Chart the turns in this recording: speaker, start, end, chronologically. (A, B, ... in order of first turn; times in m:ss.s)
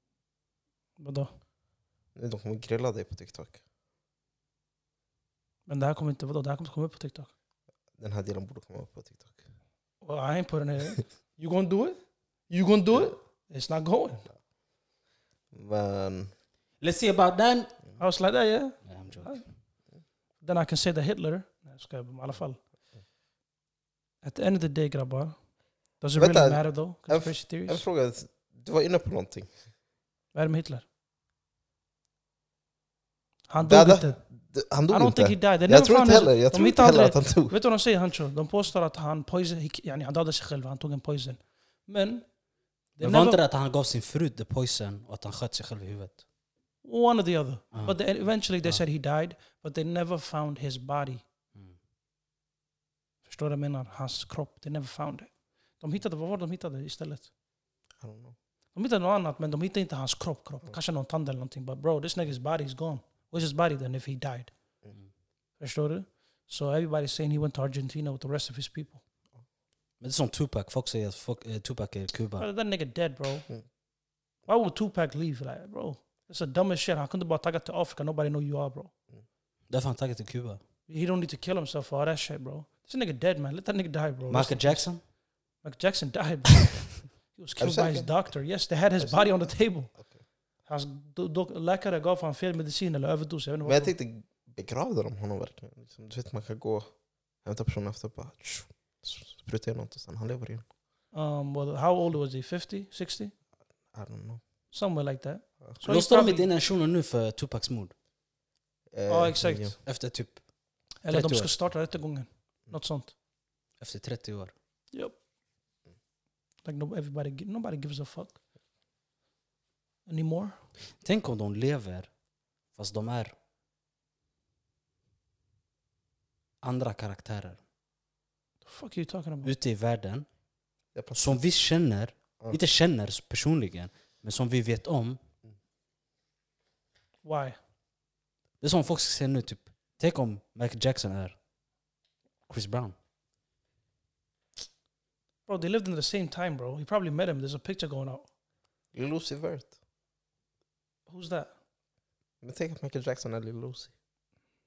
0:01.0-0:01.3 A
0:02.1-0:03.6 B
0:05.7-0:07.3 A
0:08.0-0:09.4 B
0:10.0-0:14.2 A
0:15.5-0:16.3 B
0:16.8-0:17.8 C
0:18.0-0:19.4 A
0:18.8-0:19.5 C
0:20.4-0:22.6 A
0:24.2-0:25.4 A
0:26.0-0:27.8 A
0:26.2-0:29.5 B
0:30.3-0:30.8 A
0:33.5-0:34.2 A
0:33.6-0:37.6 B
0:34.9-0:42.3 A
0:43.0-0:43.4 A
0:43.0-0:46.2 C
0:46.8-0:51.2 A
0:47.7-0:48.0 C
0:53.2-0:57.3 A
0:58.0-0:58.4 B
0:58.7-1:04.5 A
1:05.6-1:09.0 A
1:10.0-1:12.4 C
1:12.4-1:13.5 A
1:14.5-1:18.9 A
1:19.7-1:20.6 C
1:20.9-1:25.0 A
1:24.3-1:25.0 C
1:25.6-1:30.0 A
1:27.6-1:28.2 B
1:29.0-1:30.2 B
1:30.6-1:33.9 A
1:33.6-1:40.6 B
1:41.1-1:43.3 A
1:43.9-1:44.4 B
1:44.7-1:46.5 A
1:45.8-1:47.9 C
1:48.9-1:49.8 B
1:49.1-1:49.8 A
1:49.8-1:50.4 C
1:51.0-1:53.1 A
1:51.1-1:51.5 C
1:53.8-1:54.5 C
1:54.9-1:55.2 A
1:56.6-1:58.4 A
2:00.0-2:00.6 A
2:01.0-2:02.1 C
2:02.7-2:03.3 C
2:06.6-2:07.6 C
2:08.6-2:09.5 A
2:09.4-2:10.2 C
2:10.9-2:11.3 B
2:11.1-2:15.2 C
2:17.2-2:17.6 A
2:18.6-2:21.4 C
2:22.5-2:22.9 C
2:25.5-2:28.3 A
2:28.9-2:29.7 B
2:31.1-2:31.5 A
2:32.4-2:33.9 B